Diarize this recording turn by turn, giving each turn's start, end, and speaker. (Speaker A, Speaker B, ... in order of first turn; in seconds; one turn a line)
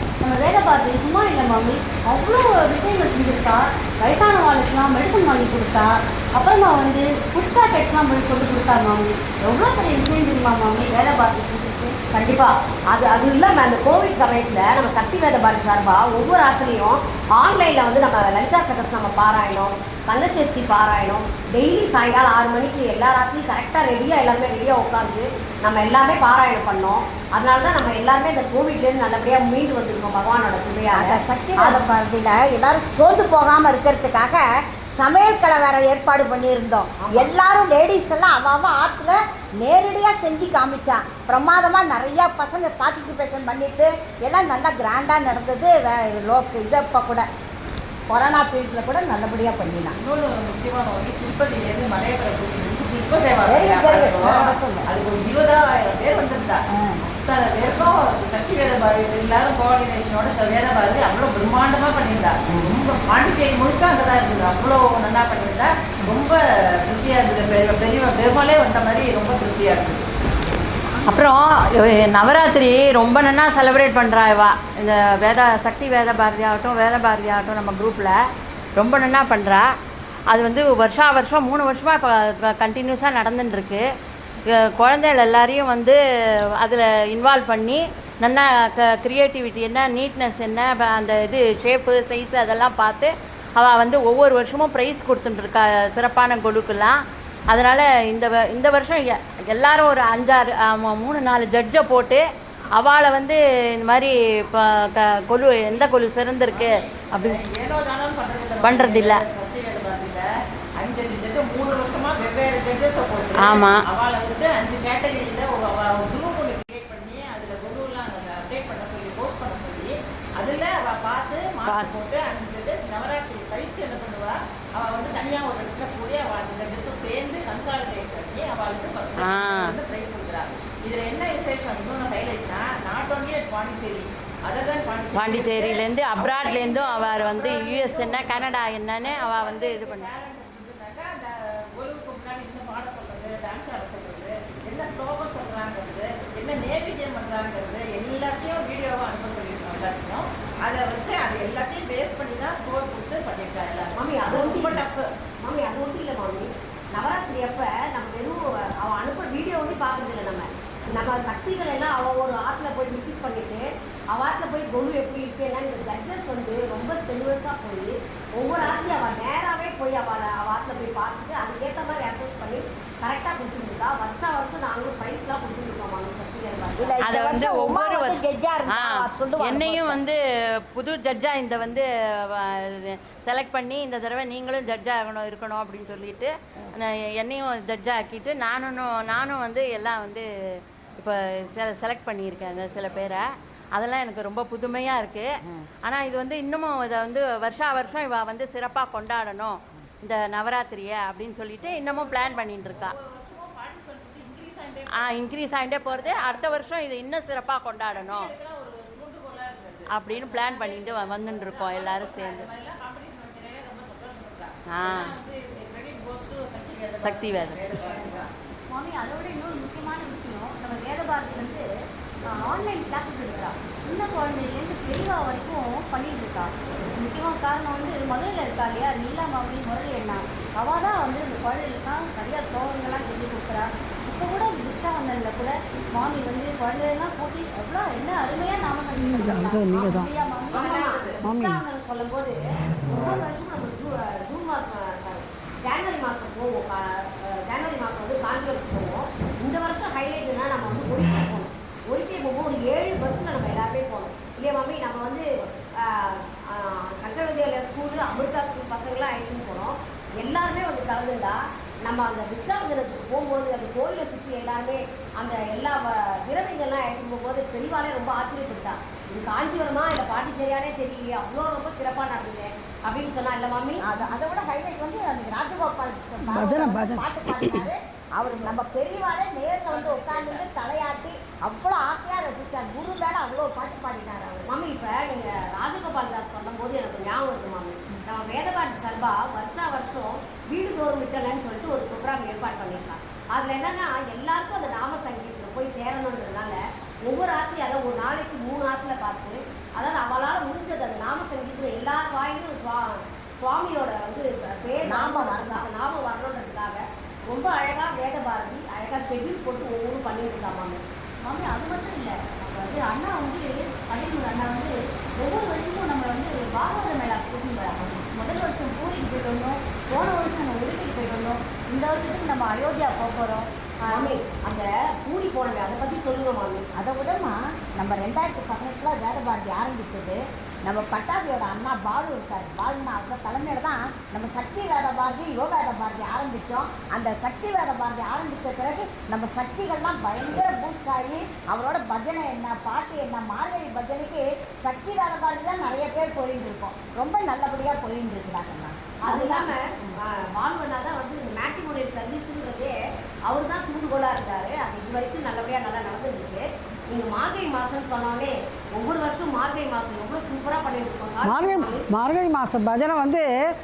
Speaker A: 0.2-12.0
Speaker B: 12.1-31.8
Speaker C: 30.9-34.4
Speaker C: 35.0-47.3
Speaker B: 37.0-37.3
Speaker C: 48.1-50.0
Speaker D: 50.0-70.0
Speaker C: 53.5-54.9
Speaker E: 71.0-78.2
Speaker E: 78.8-79.7
Speaker E: 80.3-83.9
Speaker E: 84.5-86.0
Speaker E: 86.6-102.2
Speaker E: 102.8-107.4
Speaker D: 106.5-110.2
Speaker E: 108.6-109.2
Speaker D: 110.8-155.1
Speaker E: 113.4-113.8
Speaker E: 121.7-122.1
Speaker E: 129.2-129.7
Speaker E: 135.1-140.1
Speaker B: 154.0-154.9
Speaker B: 155.4-177.0
Speaker C: 176.8-180.0
Speaker E: 177.0-190.3
Speaker E: 191.0-195.3
Speaker E: 195.8-202.9
Speaker D: 201.6-205.2
Speaker E: 205.0-208.3
Speaker D: 205.9-206.7
Speaker D: 207.9-218.3
Speaker E: 209.9-212.5
Speaker E: 214.7-215.1
Speaker E: 217.0-218.1
Speaker A: 218.7-221.7
Speaker A: 222.3-240.8
Speaker F: 239.0-240.1
Speaker D: 240.5-241.2
Speaker B: 240.5-273.8
Speaker F: 241.2-241.6
Speaker C: 273.8-284.4
Speaker F: 276.3-277.7
Speaker D: 279.6-280.5
Speaker B: 284.4-310.8
Speaker C: 304.9-305.7
Speaker A: 311.2-324.1
Speaker B: 323.9-326.6
Speaker C: 326.8-349.5
Speaker B: 349.1-361.9
Speaker F: 361.2-363.3